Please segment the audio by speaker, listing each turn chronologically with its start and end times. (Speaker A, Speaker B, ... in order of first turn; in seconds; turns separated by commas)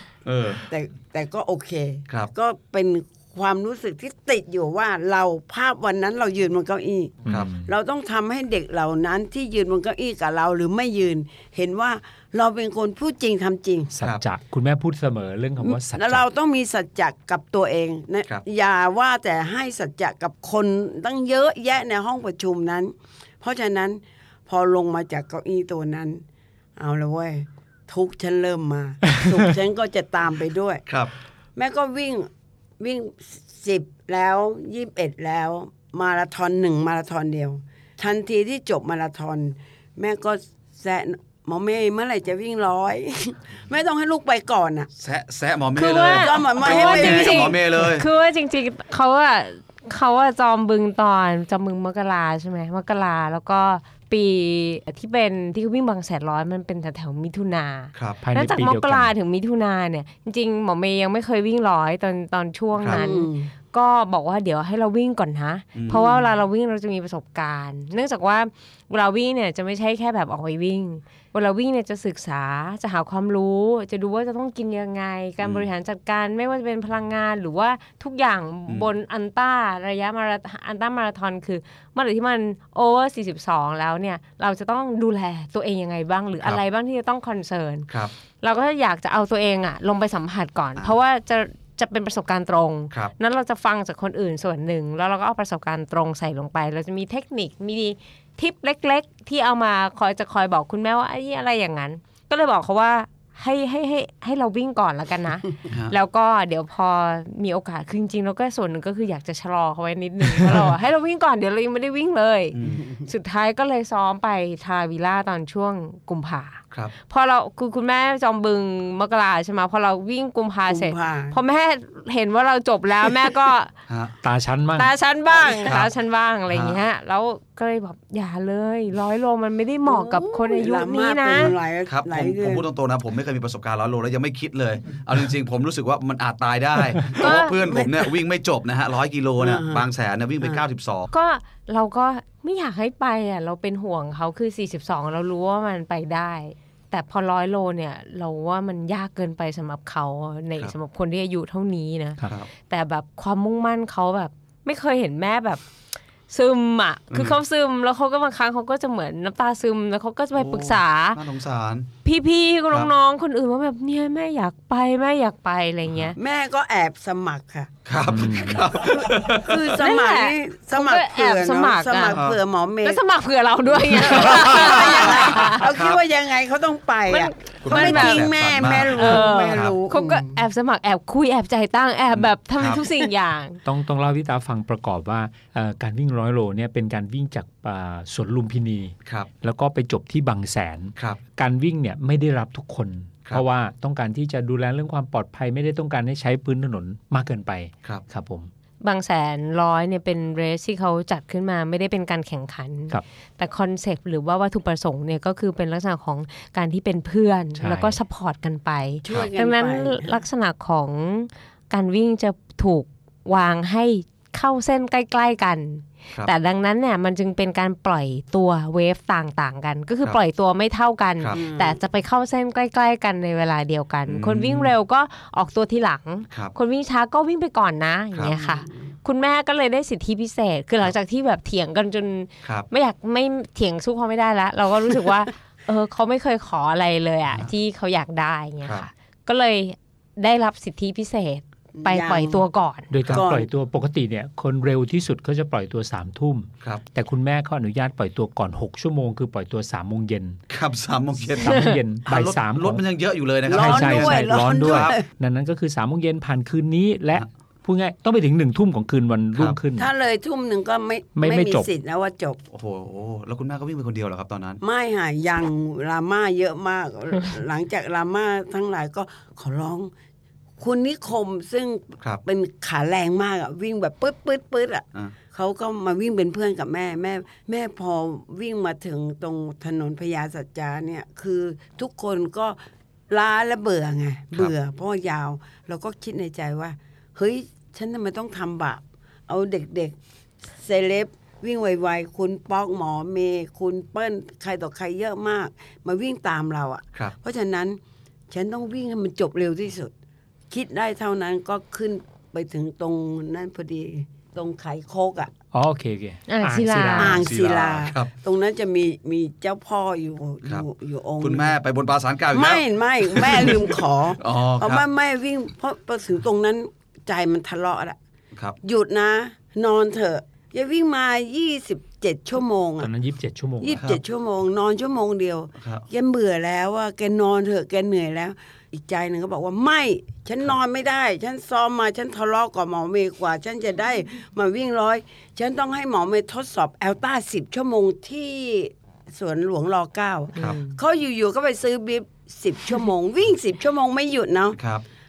Speaker A: 0.2-0.6, Speaker B: 0.7-13.9, Speaker C: 7.2-7.7, Speaker C: 13.9-16.3, Speaker B: 15.6-26.2, Speaker B: 26.8-30.8, Speaker A: 30.9-31.1, Speaker B: 31.6-32.3, Speaker B: 32.8-44.9, Speaker A: 45.0-48.1, Speaker D: 45.8-87.9, Speaker B: 46.1-47.6, Speaker A: 58.0-58.2, Speaker C: 58.2-59.1, Speaker A: 62.8-63.0, Speaker B: 62.9-63.5, Speaker A: 65.8-66.1, Speaker B: 65.9-66.3, Speaker A: 75.4-75.7, Speaker A: 78.7-78.9, Speaker D: 88.4-123.7, Speaker A: 105.7-106.0, Speaker A: 112.5-112.8, Speaker B: 120.7-121.4, Speaker A: 123.9-124.2, Speaker C: 124.2-124.9, Speaker D: 124.8-131.6, Speaker B: 125.3-125.8, Speaker A: 125.7-125.9, Speaker A: 126.5-126.8, Speaker B: 129.9-132.7, Speaker A: 131.4-141.1, Speaker D: 137.2-137.6, Speaker B: 137.2-138.1, Speaker B: 139.4-139.8, Speaker D: 141.1-155.6, Speaker A: 152.2-152.5, Speaker D: 156.3-161.2, Speaker A: 157.1-157.4, Speaker A: 160.3-161.9, Speaker D: 162.0-166.2, Speaker A: 165.9-166.2, Speaker B: 166.2-167.7, Speaker A: 167.9-169.7, Speaker C: 168.1-168.7, Speaker B: 168.7-173.0, Speaker D: 169.8-172.2, Speaker A: 172.1-172.4, Speaker D: 172.8-175.7, Speaker B: 173.8-180.4, Speaker A: 174.1-176.0, Speaker D: 177.1-183.6, Speaker A: 177.6-179.8, Speaker A: 182.1-182.8, Speaker C: 183.7-198.5, Speaker D: 198.8-242.9, Speaker C: 207.6-208.0, Speaker B: 209.0-210.2, Speaker B: 221.3-221.8, Speaker A: 224.1-224.7, Speaker B: 228.3-228.9, Speaker A: 238.6-238.9, Speaker B: 241.8-242.4, Speaker C: 242.9-250.4, Speaker B: 243.1-243.5, Speaker A: 250.5-255.0, Speaker C: 251.3-252.8, Speaker B: 253.5-255.1, Speaker C: 253.5-259.9, Speaker B: 259.8-262.4, Speaker C: 261.2-261.7, Speaker A: 262.5-264.6, Speaker B: 264.6-269.9, Speaker B: 270.6-282.6, Speaker B: 283.1-290.0, Speaker B: 290.6-297.8, Speaker B: 298.3-299.9, Speaker B: 300.5-305.3, Speaker C: 305.5-307.2, Speaker D: 306.3-307.2, Speaker B: 307.0-311.5, Speaker A: 307.2-308.1, Speaker A: 311.2-314.9, Speaker B: 312.3-318.0, Speaker A: 318.3-318.6, Speaker B: 318.6-322.9, Speaker C: 322.8-323.9, Speaker B: 323.6-344.6, Speaker A: 325.6-325.9, Speaker A: 344.5-344.8